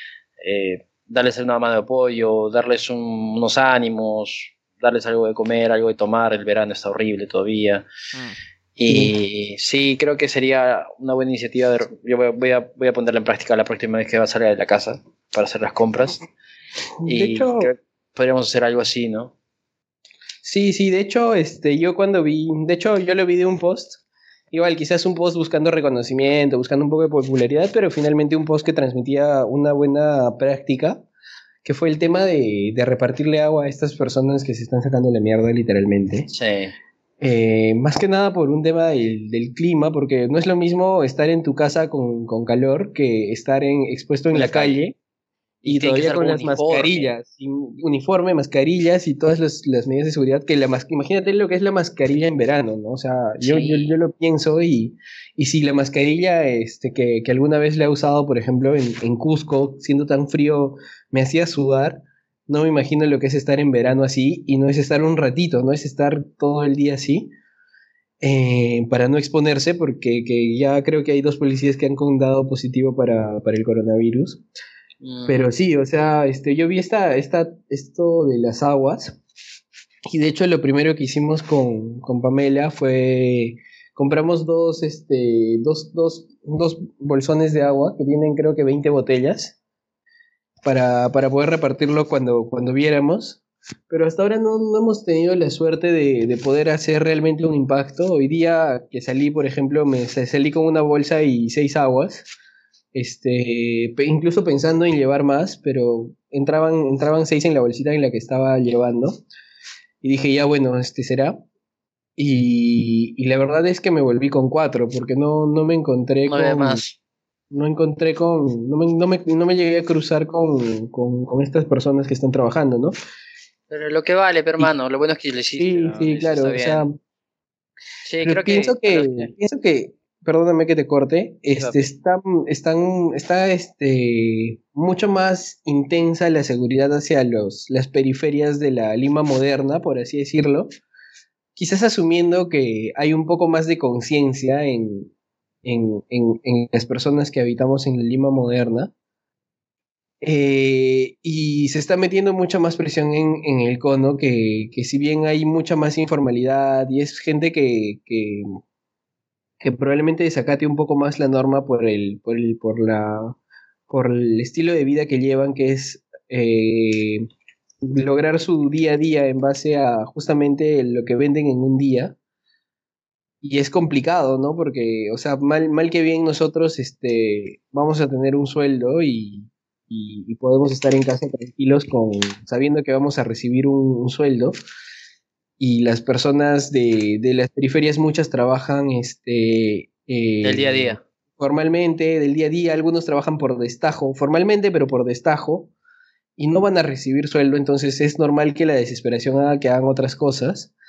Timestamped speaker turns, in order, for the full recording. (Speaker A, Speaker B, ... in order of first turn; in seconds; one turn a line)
Speaker A: 0.4-7.9
Speaker A: 8.8-16.3
Speaker B: 8.9-9.1
Speaker B: 17.0-17.7
Speaker A: 17.1-19.3
Speaker B: 20.4-31.1
Speaker B: 31.6-36.3
Speaker A: 36.3-36.7
Speaker B: 37.2-45.0
Speaker A: 44.3-44.8
Speaker B: 45.6-67.3
Speaker A: 45.6-47.1
Speaker A: 53.4-54.0
Speaker B: 68.2-74.4
Speaker A: 75.0-75.5
Speaker B: 75.3-79.2
Speaker B: 80.1-89.6
Speaker B: 90.6-102.3
Speaker B: 102.9-109.2
Speaker B: 110.0-111.4
Speaker B: 112.2-116.8
Speaker A: 116.3-117.0
Speaker B: 117.5-123.0
Speaker A: 123.7-126.8
Speaker B: 125.6-127.0
Speaker A: 128.1-129.3
Speaker B: 128.2-140.7
Speaker A: 131.6-131.9
Speaker B: 141.6-145.1
Speaker B: 145.6-148.9
Speaker B: 150.2-158.5
Speaker B: 159.6-163.4
Speaker B: 163.9-167.3
Speaker B: 167.8-172.2
Speaker B: 173.4-184.6
Speaker B: 185.6-195.7
Speaker A: 190.4-191.0
Speaker B: 196.4-200.7